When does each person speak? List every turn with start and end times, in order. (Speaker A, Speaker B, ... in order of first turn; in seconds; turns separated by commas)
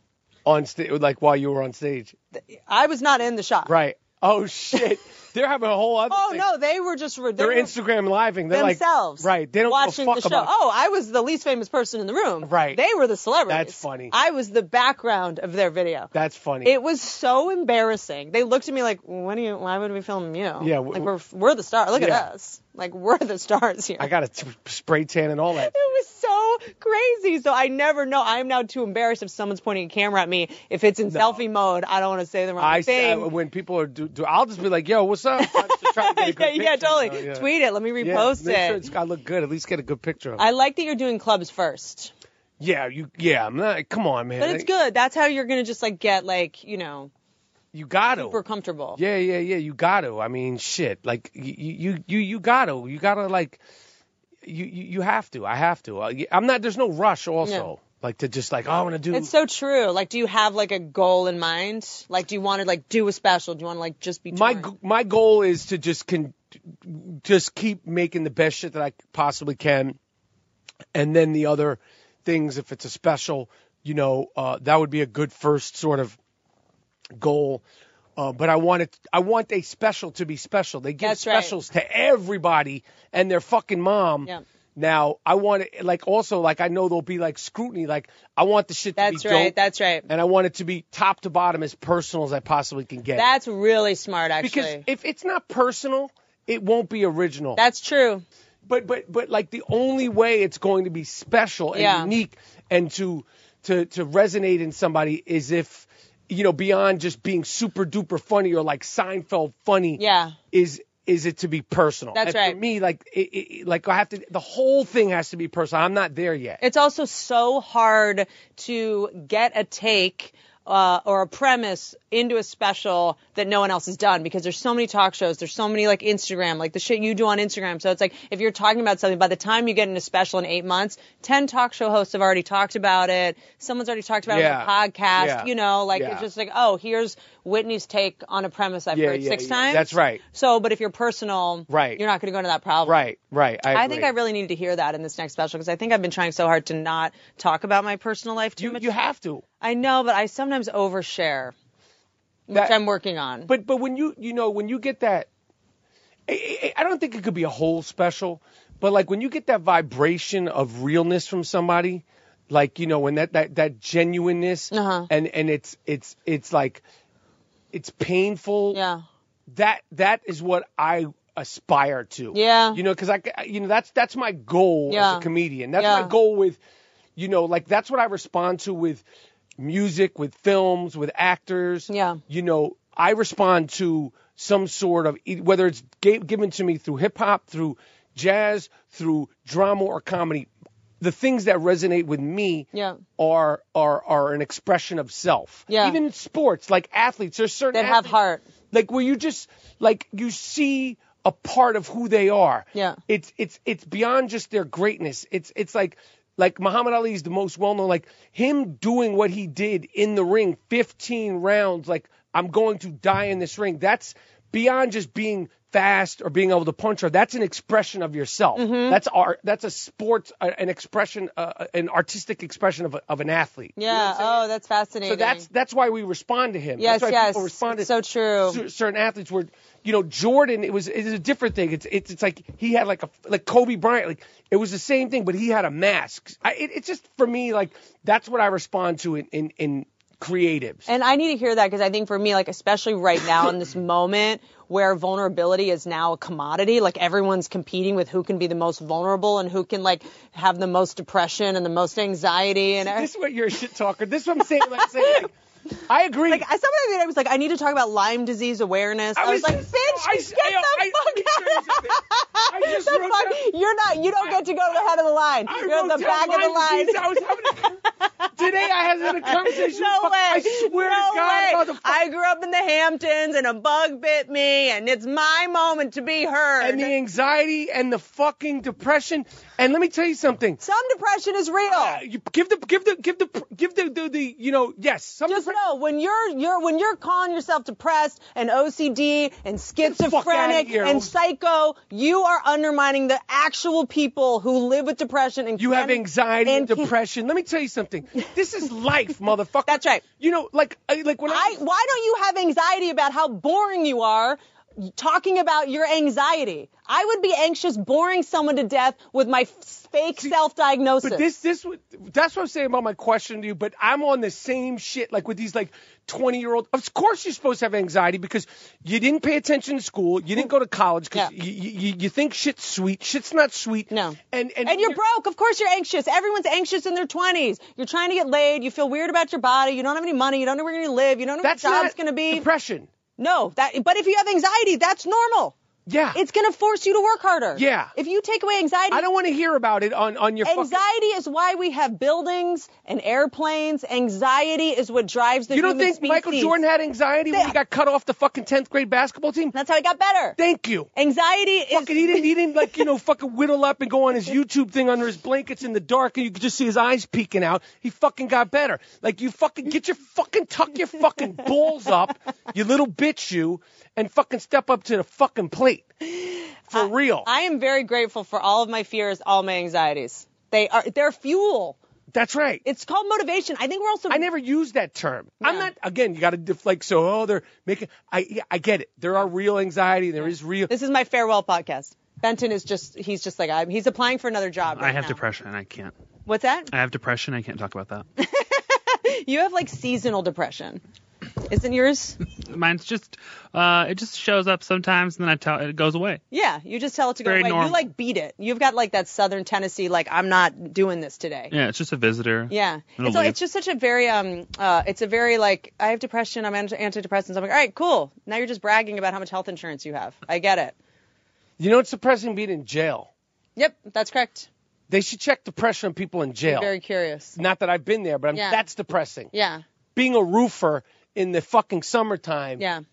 Speaker A: 0.5-2.1, Speaker B: 2.4-3.7, Speaker A: 3.7-6.5, Speaker B: 6.1-7.7, Speaker A: 7.4-10.5, Speaker B: 8.5-16.1, Speaker A: 12.4-12.8, Speaker A: 13.5-14.1, Speaker A: 16.1-16.7, Speaker B: 16.6-24.1, Speaker A: 20.6-21.1, Speaker A: 21.9-22.2, Speaker A: 24.0-25.8, Speaker B: 25.6-33.3, Speaker A: 31.1-31.4, Speaker A: 32.6-37.5, Speaker B: 35.4-38.8, Speaker A: 38.0-40.4, Speaker B: 40.4-42.1, Speaker A: 42.6-44.7, Speaker B: 44.4-47.1, Speaker A: 47.7-48.4, Speaker B: 48.1-49.0, Speaker A: 49.0-53.6, Speaker A: 54.4-59.3, Speaker B: 57.4-57.7, Speaker B: 59.1-64.7, Speaker A: 64.3-70.0, Speaker A: 70.9-76.2, Speaker A: 77.2-77.6, Speaker A: 78.2-89.5, Speaker B: 81.0-81.6, Speaker B: 89.0-90.1, Speaker A: 90.1-93.3, Speaker B: 93.2-94.8, Speaker A: 94.4-97.6, Speaker B: 97.6-98.2, Speaker A: 98.7-110.0, Speaker B: 101.7-102.1, Speaker B: 110.0-110.4, Speaker A: 110.5-116.6, Speaker B: 112.2-112.6, Speaker B: 116.6-143.0, Speaker A: 134.3-136.3, Speaker A: 138.9-140.2, Speaker A: 141.7-142.0, Speaker A: 142.9-144.1, Speaker B: 143.7-148.9, Speaker A: 148.6-149.4, Speaker B: 149.6-151.5, Speaker B: 152.5-153.5, Speaker A: 153.5-155.3, Speaker A: 156.3-166.8, Speaker B: 164.7-165.1, Speaker A: 167.7-168.8, Speaker B: 168.7-169.0, Speaker A: 169.5-176.6, Speaker B: 172.3-172.8, Speaker B: 174.9-175.3, Speaker B: 175.8-176.1, Speaker A: 177.2-179.0, Speaker A: 179.6-190.5, Speaker B: 181.9-182.2, Speaker A: 191.0-198.2, Speaker B: 192.7-193.0, Speaker B: 195.7-196.0, Speaker B: 197.7-198.4, Speaker A: 198.7-224.4, Speaker B: 218.6-219.0, Speaker B: 223.8-225.5, Speaker A: 225.1-227.9, Speaker B: 226.8-228.6, Speaker A: 228.5-240.9, Speaker B: 240.9-253.1, Speaker A: 252.8-255.3, Speaker B: 254.7-255.3, Speaker A: 255.9-256.4, Speaker B: 256.3-276.9, Speaker A: 259.2-263.4, Speaker A: 264.1-264.4, Speaker A: 265.5-267.8, Speaker A: 268.3-272.0, Speaker A: 276.6-280.6, Speaker B: 280.6-282.0, Speaker A: 281.7-285.6, Speaker B: 285.3-296.9, Speaker A: 289.8-291.1, Speaker A: 295.6-301.6, Speaker B: 299.7-300.0, Speaker B: 301.3-311.3, Speaker A: 311.0-325.0, Speaker B: 323.9-332.5, Speaker A: 331.4-332.9, Speaker B: 333.2-335.6, Speaker A: 335.9-336.2, Speaker B: 336.1-339.1, Speaker A: 337.6-337.9, Speaker A: 338.9-340.8, Speaker B: 340.4-346.6, Speaker A: 345.5-349.6, Speaker B: 349.5-350.4, Speaker A: 350.4-350.9, Speaker B: 350.9-352.8, Speaker A: 351.7-365.9, Speaker B: 366.1-371.8, Speaker A: 366.7-367.3, Speaker A: 372.1-372.6, Speaker B: 372.6-374.3, Speaker A: 374.1-380.7, Speaker B: 375.4-375.7, Speaker B: 380.7-385.2, Speaker C: 384.8-385.9, Speaker B: 386.3-386.7, Speaker C: 386.7-388.1, Speaker B: 388.2-390.8, Speaker B: 391.5-392.2, Speaker C: 392.4-396.2, Speaker B: 396.3-401.5, Speaker C: 397.2-397.8, Speaker C: 401.5-403.4, Speaker B: 402.5-410.8, Speaker A: 411.6-413.1, Speaker B: 413.6-414.5, Speaker A: 414.9-416.7, Speaker B: 416.5-417.4, Speaker A: 417.4-419.3, Speaker B: 418.3-418.6, Speaker B: 419.3-419.6, Speaker A: 420.0-422.6, Speaker B: 422.6-422.8